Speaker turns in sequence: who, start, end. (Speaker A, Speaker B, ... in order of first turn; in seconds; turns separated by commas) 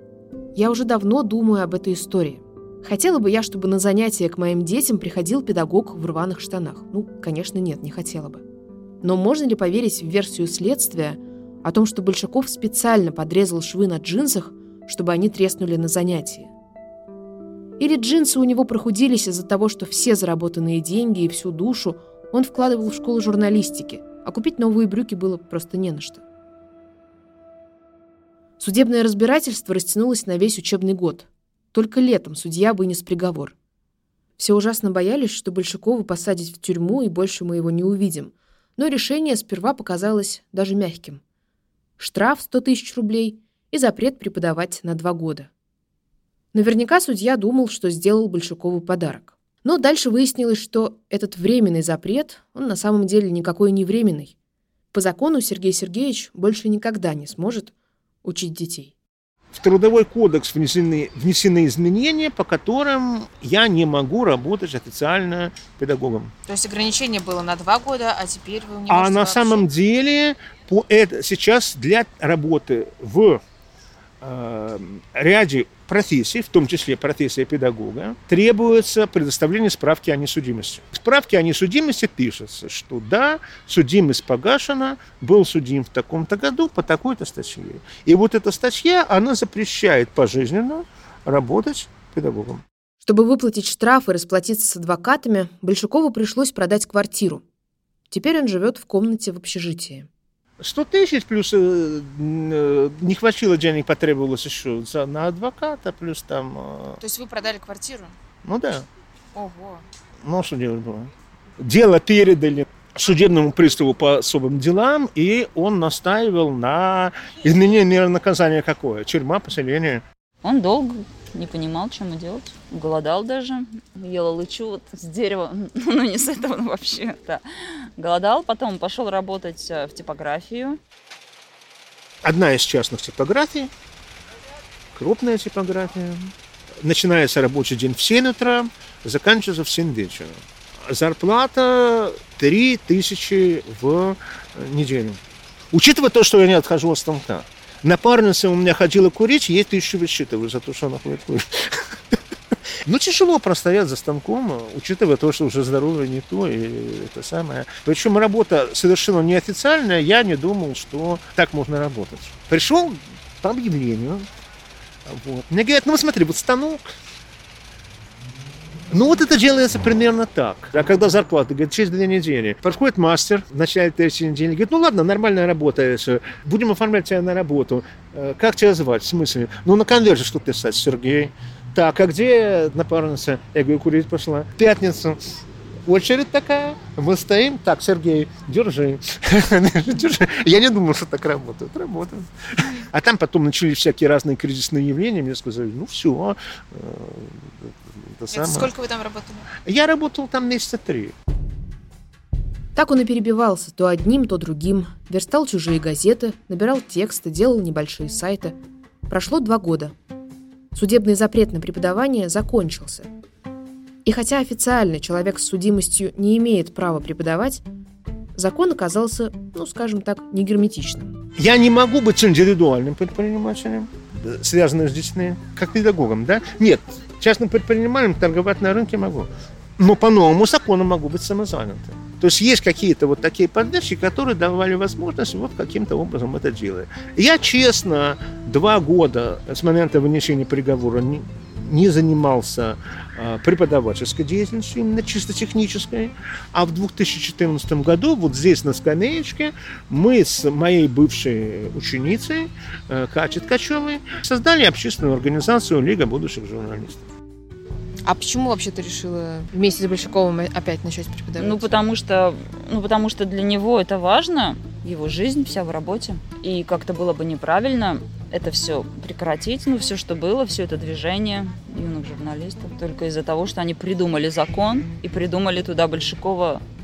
Speaker A: 0.5-8.4, Speaker A: 9.0-16.5, Speaker A: 17.8-26.2, Speaker A: 28.6-33.5, Speaker A: 34.4-41.2, Speaker A: 42.0-45.5, Speaker A: 46.5-54.3, Speaker A: 54.9-57.7, Speaker A: 58.2-58.9, Speaker B: 59.5-66.3, Speaker C: 66.5-69.7, Speaker B: 68.9-73.4, Speaker B: 74.2-92.6, Speaker A: 93.0-97.4, Speaker A: 98.1-100.1, Speaker B: 100.6-107.0, Speaker C: 107.0-108.2, Speaker B: 108.4-108.9, Speaker C: 109.3-109.8, Speaker B: 110.2-120.0, Speaker D: 120.4-127.4, Speaker D: 128.0-130.8, Speaker B: 132.2-133.7, Speaker B: 134.9-145.2, Speaker B: 145.7-152.1, Speaker B: 152.8-164.2, Speaker B: 165.1-166.9, Speaker B: 168.9-185.2, Speaker B: 185.9-198.7, Speaker C: 198.3-199.5, Speaker B: 199.6-201.1, Speaker A: 202.8-208.6, Speaker A: 209.1-209.9, Speaker A: 210.7-213.1, Speaker A: 214.0-217.6, Speaker A: 218.3-221.2, Speaker B: 221.4-257.0, Speaker C: 258.0-261.7, Speaker D: 261.4-276.6